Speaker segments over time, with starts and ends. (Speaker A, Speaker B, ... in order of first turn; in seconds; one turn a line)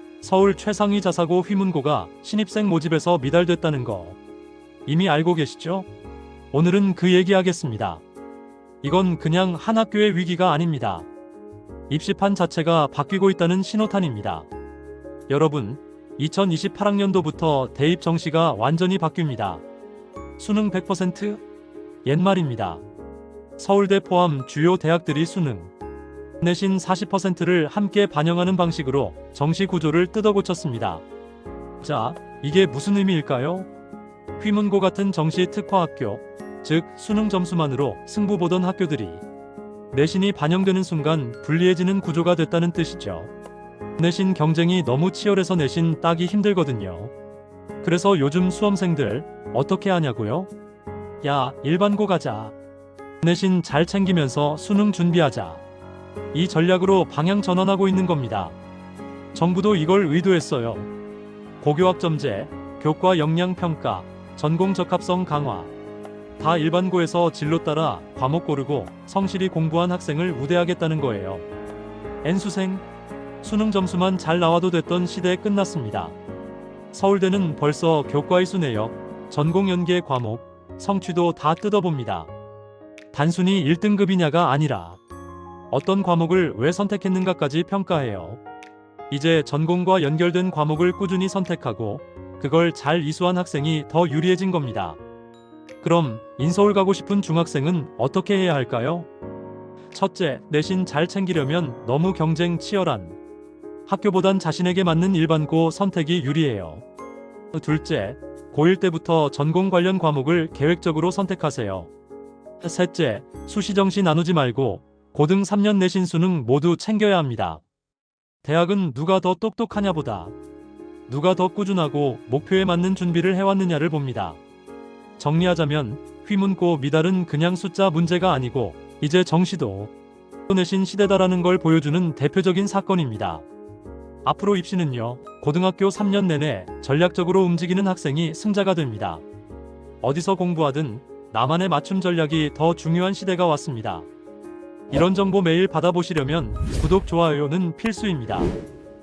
Speaker A: 0.2-4.2
Speaker A: 4.9-5.9
Speaker A: 6.5-8.0
Speaker A: 8.8-11.1
Speaker A: 11.9-14.5
Speaker A: 15.3-19.6
Speaker A: 20.4-21.4
Speaker A: 22.1-22.8
Speaker A: 23.6-25.7
Speaker A: 26.4-31.0
Speaker A: 31.8-33.7
Speaker A: 34.4-39.2
Speaker A: 39.9-43.3
Speaker A: 44.0-47.1
Speaker A: 47.8-50.5
Speaker A: 51.2-52.5
Speaker A: 53.2-55.6
Speaker A: 56.3-58.6
Speaker A: 59.3-60.9
Speaker A: 61.6-65.7
Speaker A: 66.4-71.5
Speaker A: 72.2-72.9
Speaker A: 73.4-76.2
Speaker A: 76.9-82.3
Speaker A: 83.1-85.0
Speaker A: 85.7-88.4
Speaker A: 89.1-95.0
Speaker A: 95.8-99.1
Speaker A: 99.9-103.2
Speaker A: 103.9-106.8
Speaker A: 107.5-111.9
Speaker A: 112.6-117.6
Speaker A: 118.4-120.3
Speaker A: 121.1-124.4
Speaker A: 125.2-129.9
Speaker A: 130.5-133.5
Speaker A: 134.2-139.2
Speaker A: 140.0-144.1
Speaker A: 144.9-148.6